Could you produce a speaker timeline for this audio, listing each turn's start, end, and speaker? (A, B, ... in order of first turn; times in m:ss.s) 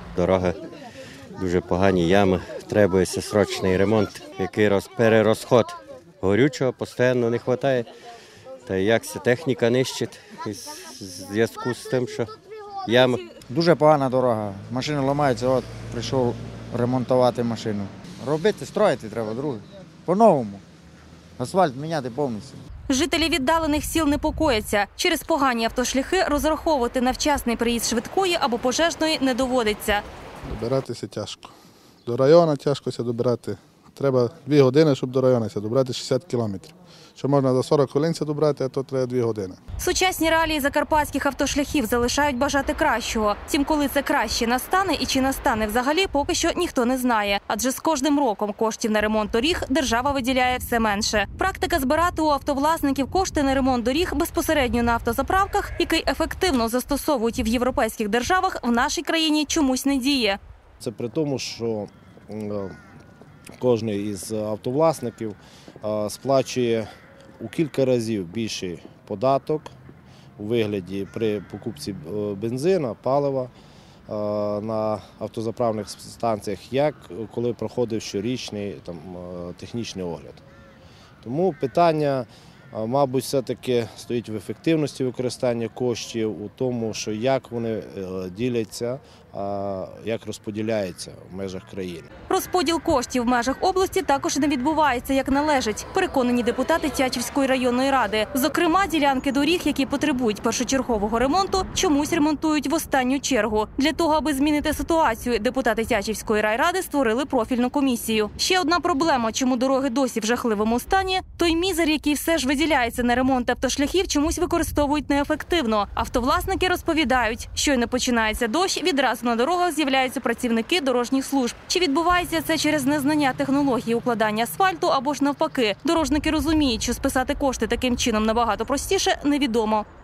0:00.2-0:00.6 A
0:01.4-0:07.9 A
0:08.7-0:12.3 A
0:12.9-0:13.2 A
0:13.5-0:20.6 B
0:21.4-0:22.6 B
0:22.9-0:30.0 C
0:30.5-0:31.5 D
0:32.1-0:39.6 D
0:39.8-1:00.4 C
1:00.8-1:02.7 E
1:03.6-1:06.9 E
1:07.4-1:09.7 E
1:10.4-1:13.5 E
1:14.1-1:20.4 E
1:21.2-1:32.1 E
1:32.3-2:09.8 C